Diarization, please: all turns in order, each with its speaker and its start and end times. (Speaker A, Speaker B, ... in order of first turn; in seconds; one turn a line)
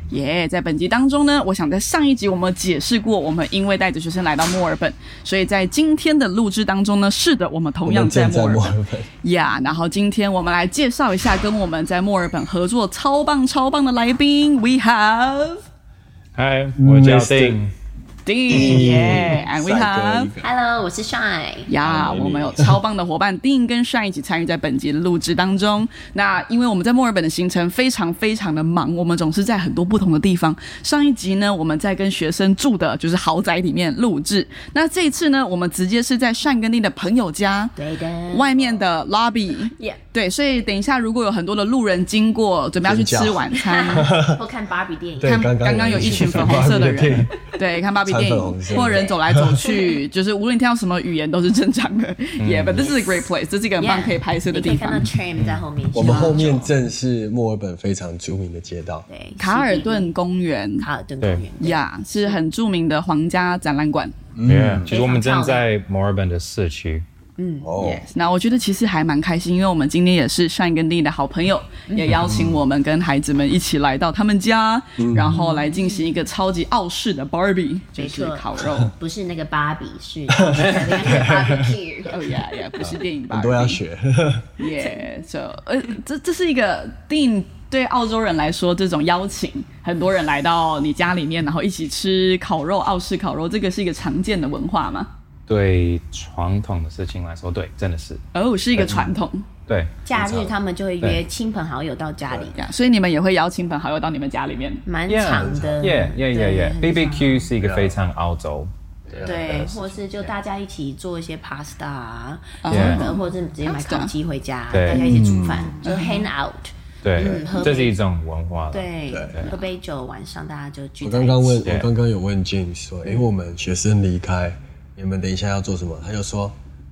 Speaker A: 0.1-15.6
Speaker B: 7.8-9.1
Speaker C: 16.4-17.7
Speaker B: 16.8-17.6
Speaker A: 18.2-20.3
Speaker B: 18.5-20.5
Speaker D: 20.4-21.7
Speaker A: 21.7-37.8
Speaker B: 21.8-22.8
Speaker D: 37.8-38.5
Speaker A: 38.3-44.1
Speaker B: 42.8-44.4
Speaker D: 43.5-45.4
Speaker B: 45.2-47.4
Speaker A: 45.2-55.1
Speaker D: 46.1-46.5
Speaker B: 48.0-49.6
Speaker D: 48.7-49.2
Speaker C: 52.4-52.9
Speaker D: 53.8-56.7
Speaker B: 55.9-59.1
Speaker A: 56.0-56.4
Speaker D: 59.1-60.1
Speaker A: 59.4-60.9
Speaker D: 60.8-62.4
Speaker C: 61.2-61.5
Speaker A: 61.6-64.2
Speaker B: 64.3-64.9
Speaker C: 64.5-67.0
Speaker D: 64.9-65.7
Speaker D: 67.4-67.7
Speaker B: 67.6-68.1
Speaker A: 67.8-78.9
Speaker D: 71.9-72.2
Speaker B: 72.2-72.6
Speaker B: 75.0-75.4
Speaker D: 75.3-76.1
Speaker D: 78.0-82.3
Speaker B: 80.3-81.7
Speaker C: 80.7-81.0
Speaker A: 82.1-83.8
Speaker B: 82.8-84.5
Speaker A: 84.6-95.1
Speaker C: 95.5-98.2
Speaker A: 98.3-99.5
Speaker C: 98.8-99.1
Speaker C: 99.7-100.5
Speaker D: 100.0-102.6
Speaker B: 102.3-102.5
Speaker A: 102.5-104.8
Speaker D: 104.8-107.5
Speaker C: 105.1-108.7
Speaker B: 105.3-106.0
Speaker B: 107.6-108.0
Speaker B: 109.1-110.0
Speaker D: 109.2-118.0
Speaker A: 112.6-114.1
Speaker C: 112.7-113.1
Speaker C: 114.7-115.1
Speaker B: 114.9-115.8
Speaker A: 115.8-116.3
Speaker C: 117.0-119.5
Speaker D: 118.7-121.6
Speaker B: 119.1-119.4
Speaker B: 121.0-126.6
Speaker C: 121.6-121.9